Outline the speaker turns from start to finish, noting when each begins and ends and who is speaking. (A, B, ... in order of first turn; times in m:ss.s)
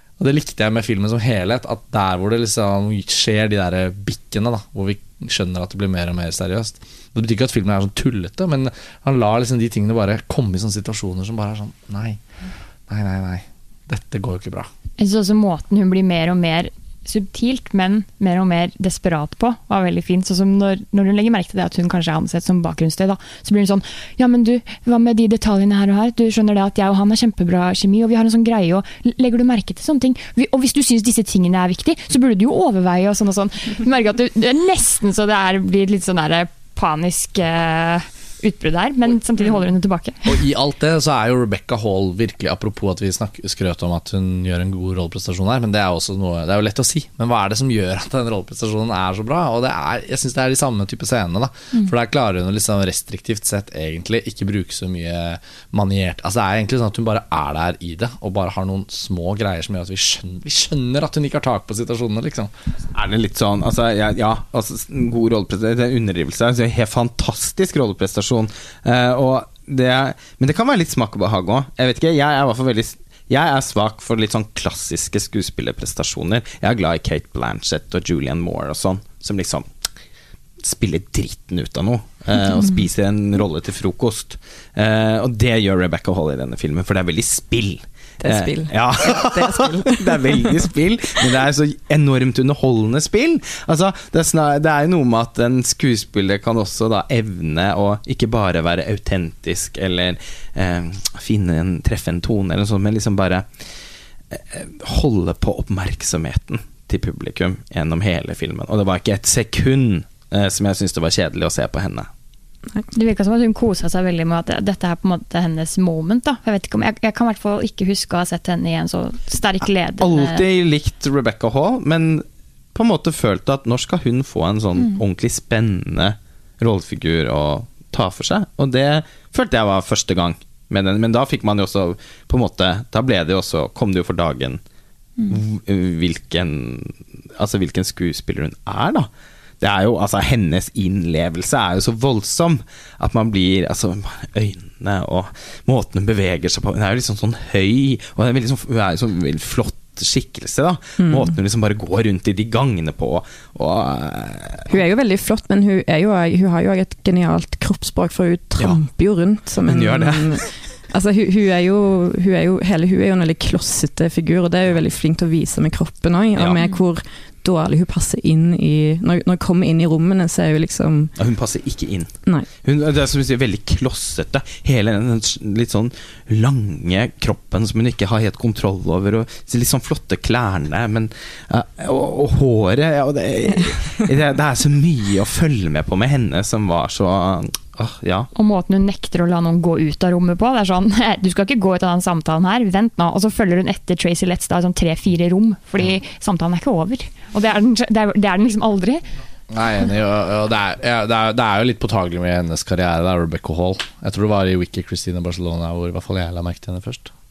0:00.2-0:12.2 A
0:12.9-0:14.7 A
0:15.0-0:40.3 B
0:40.2-1:02.5 A
1:02.9-1:19.7 C
1:20.6-1:43.5 C
1:28.2-1:30.2 D
1:44.3-1:52.1 C
1:52.9-2:00.4 B
2:00.0-2:14.6 C
2:15.2-2:19.1 C
2:19.6-2:34.7 C
2:31.0-2:31.3 D
2:34.7-2:51.1 D
2:39.6-2:40.4 C
2:46.4-2:46.6 C
2:51.2-3:08.3 C
3:08.3-3:19.0 B
3:19.5-3:27.1 A